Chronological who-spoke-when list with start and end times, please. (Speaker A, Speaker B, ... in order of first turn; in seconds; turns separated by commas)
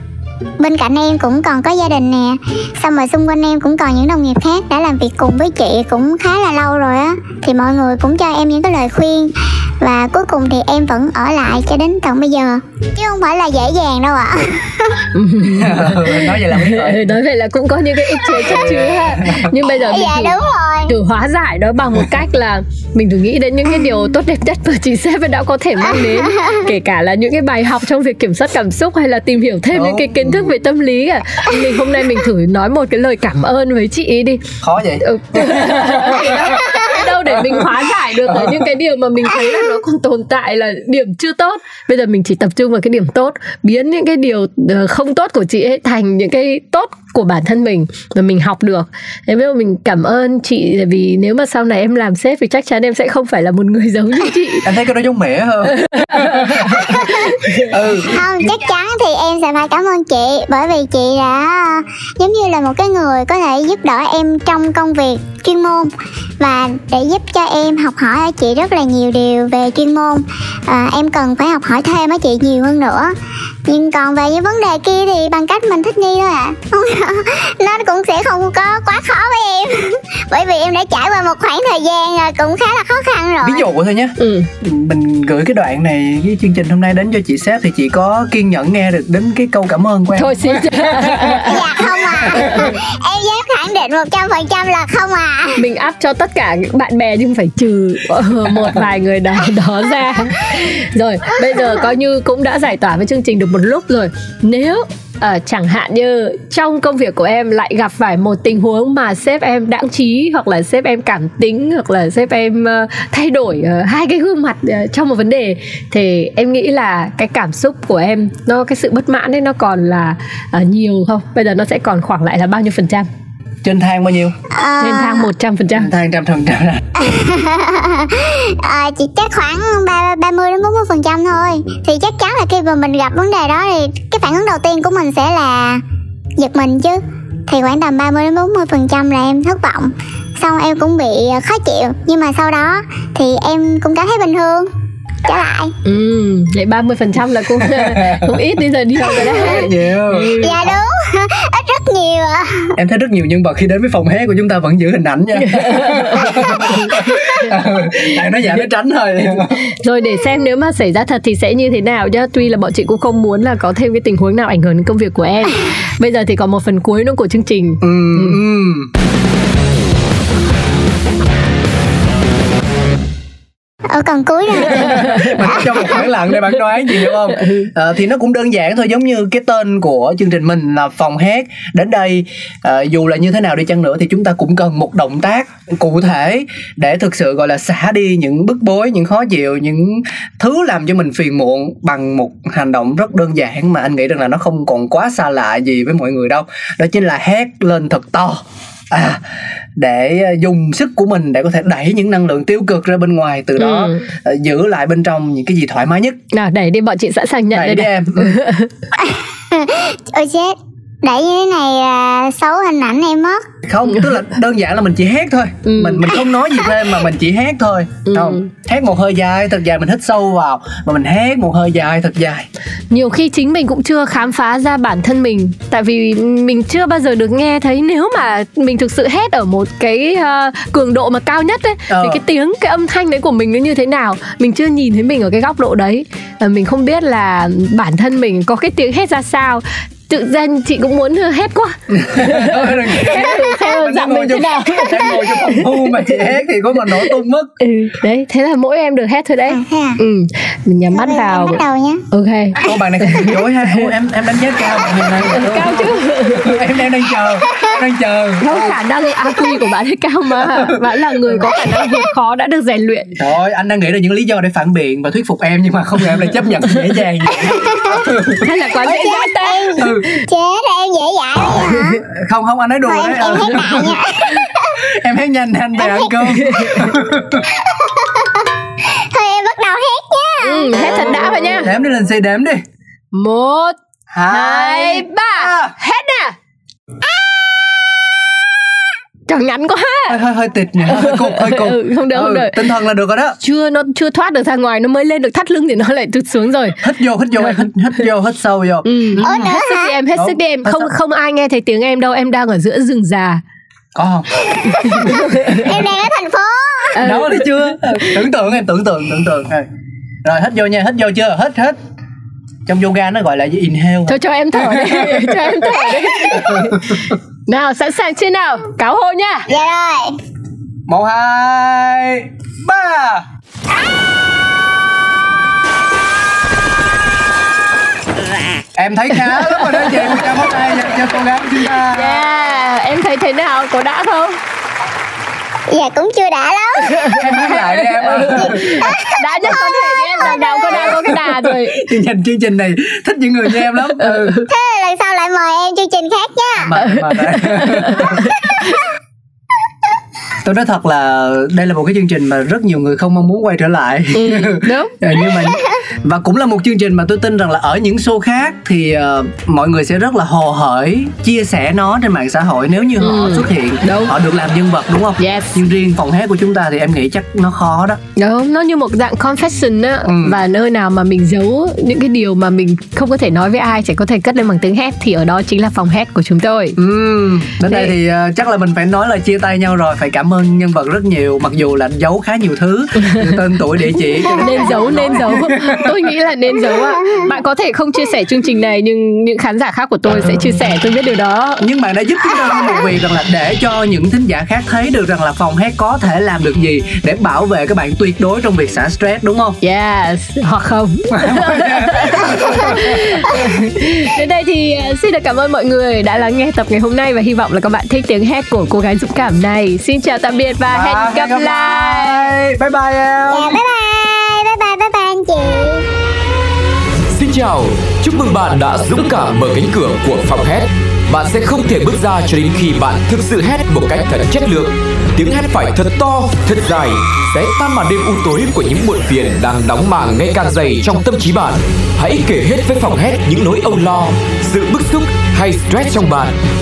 Speaker A: 0.6-15.1, Speaker B: 15.1-20.4, Speaker C: 15.4-17.1, Speaker A: 18.3-18.8, Speaker C: 18.4-19.5, Speaker A: 19.6-20.9, Speaker B: 20.9-34.4, Speaker A: 26.0-26.6, Speaker C: 29.7-30.5, Speaker C: 34.6-36.8, Speaker B: 35.0-54.7, Speaker C: 37.3-37.7, Speaker C: 38.2-38.7, Speaker C: 54.6-58.5, Speaker B: 55.8-57.6, Speaker A: 58.0-73.1, Speaker A: 73.7-83.7, Speaker C: 83.4-92.7, Speaker B: 84.2-84.5, Speaker B: 90.1-91.6, Speaker A: 91.4-95.6, Speaker B: 92.3-92.7, Speaker B: 95.6-123.1, Speaker C: 123.6-124.3, Speaker A: 124.5-125.3, Speaker B: 124.8-125.9, Speaker C: 125.7-126.8, Speaker A: 127.0-135.8, Speaker A: 136.4-144.7, Speaker A: 145.2-145.7, Speaker B: 145.8-150.6, Speaker C: 147.6-148.4, Speaker C: 149.0-150.8, Speaker A: 149.1-149.7, Speaker A: 150.4-152.8, Speaker C: 152.8-159.6, Speaker B: 155.4-157.2, Speaker B: 159.7-168.4, Speaker C: 167.8-168.9, Speaker A: 173.9-175.6, Speaker C: 174.7-199.2, Speaker B: 177.4-177.7, Speaker C: 199.8-206.2, Speaker B: 203.6-204.0, Speaker B: 206.3-208.7, Speaker C: 207.5-208.4, Speaker A: 208.9-213.4, Speaker C: 213.7-222.5, Speaker B: 215.6-216.1, Speaker B: 218.1-218.5, Speaker B: 222.9-246.2, Speaker C: 231.9-232.2, Speaker C: 241.9-247.5, Speaker B: 247.0-253.9, Speaker A: 249.5-250.0, Speaker A: 250.9-252.0, Speaker C: 252.6-258.8, Speaker B: 255.2-256.6, Speaker A: 257.4-257.7, Speaker B: 258.4-263.1, Speaker C: 260.4-261.4, Speaker C: 263.1-268.5, Speaker A: 267.4-268.0, Speaker B: 268.4-270.2, Speaker A: 268.8-272.0, Speaker C: 269.8-270.0, Speaker B: 271.6-271.8, Speaker C: 272.0-274.0, Speaker A: 272.9-274.8, Speaker C: 274.7-277.4, Speaker A: 275.8-276.1, Speaker B: 276.3-276.9, Speaker A: 277.5-281.4, Speaker B: 280.4-281.7, Speaker C: 281.5-282.6, Speaker B: 283.1-283.8, Speaker C: 284.1-285.7, Speaker B: 284.3-286.3, Speaker B: 289.3-290.2, Speaker C: 290.1-293.4, Speaker B: 290.8-292.7, Speaker B: 293.4-296.8, Speaker C: 296.8-299.6, Speaker B: 297.4-297.7, Speaker B: 298.8-303.4, Speaker A: 299.2-299.9, Speaker C: 300.1-300.9, Speaker C: 303.9-305.5, Speaker B: 304.8-305.6, Speaker A: 305.5-307.0, Speaker B: 306.9-308.2, Speaker C: 307.0-309.6, Speaker C: 310.2-311.8, Speaker C: 312.7-315.6, Speaker B: 314.1-319.5, Speaker C: 316.2-317.0, Speaker A: 319.5-320.2, Speaker C: 320.9-323.2, Speaker C: 328.8-332.2, Speaker B: 329.4-329.9, Speaker B: 331.6-334.4, Speaker A: 335.7-337.2, Speaker B: 336.9-341.8, Speaker C: 337.1-338.9, Speaker A: 338.2-341.1, Speaker C: 340.6-344.3, Speaker B: 344.0-344.5, Speaker A: 344.5-346.8, Speaker C: 346.6-348.3, Speaker B: 346.8-348.7, Speaker A: 348.3-348.7, Speaker C: 350.4-368.0, Speaker B: 354.1-354.9, Speaker B: 363.0-364.1, Speaker B: 365.2-365.6, Speaker B: 368.2-376.8, Speaker C: 370.1-370.4, Speaker C: 376.8-386.0, Speaker B: 377.6-377.9, Speaker B: 383.0-383.4, Speaker B: 384.2-391.6, Speaker C: 391.6-399.6, Speaker B: 399.6-412.3, Speaker C: 401.1-403.2, Speaker C: 410.6-413.6, Speaker A: 413.3-415.9, Speaker D: 417.1-436.3